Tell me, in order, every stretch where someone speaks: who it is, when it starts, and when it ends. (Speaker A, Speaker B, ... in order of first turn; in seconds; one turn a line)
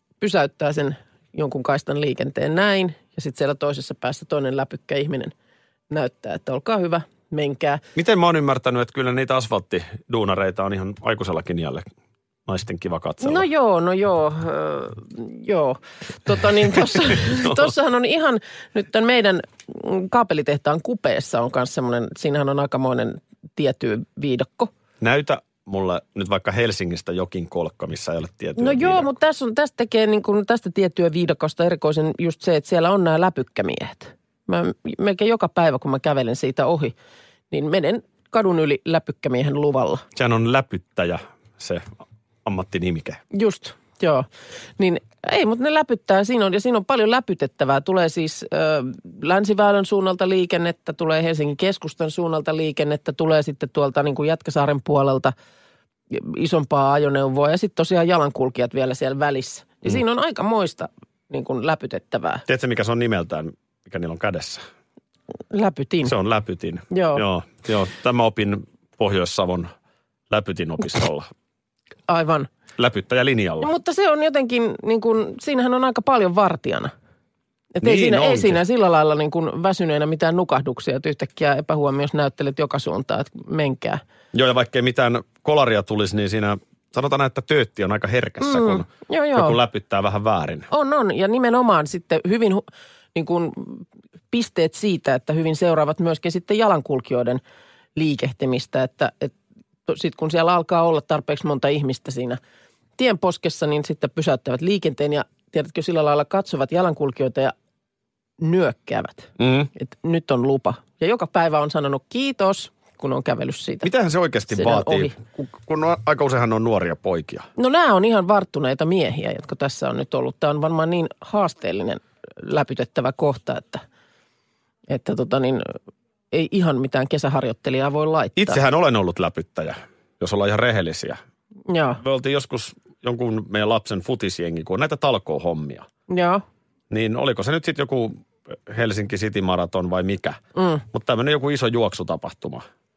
Speaker A: 0.2-5.3
Speaker A: 5.9-7.8
Speaker B: 7.9-11.9
Speaker B: 12.5-13.4
Speaker A: 13.2-24.7
Speaker B: 16.9-17.7
Speaker B: 25.0-29.1
Speaker A: 28.6-36.9
Speaker A: 37.5-40.0
Speaker B: 40.1-41.8
Speaker B: 42.4-43.2
Speaker A: 43.3-55.3
Speaker A: 56.1-62.4
Speaker B: 62.5-64.6
Speaker A: 65.5-66.1
Speaker B: 66.0-69.7
Speaker A: 66.9-67.2
Speaker B: 70.3-71.3
Speaker A: 72.1-72.5
Speaker B: 72.8-73.7
Speaker A: 73.6-76.9
Speaker A: 77.7-84.0
Speaker B: 77.8-78.6
Speaker B: 84.3-90.7
Speaker A: 88.4-89.6
Speaker A: 90.7-97.4
Speaker A: 98.0-99.3
Speaker A: 99.8-102.4
Speaker A: 103.0-107.5
Speaker A: 108.4-113.9
Speaker B: 109.4-109.7
Speaker B: 113.8-117.5
Speaker A: 114.5-115.2
Speaker A: 117.5-123.8
Speaker A: 124.9-125.8
Speaker A: 126.3-128.6
Speaker B: 128.3-131.2
Speaker A: 131.7-132.0
Speaker B: 132.0-135.9
Speaker A: 136.1-136.4
Speaker B: 136.9-140.4
Speaker A: 140.6-140.8
Speaker B: 140.9-142.6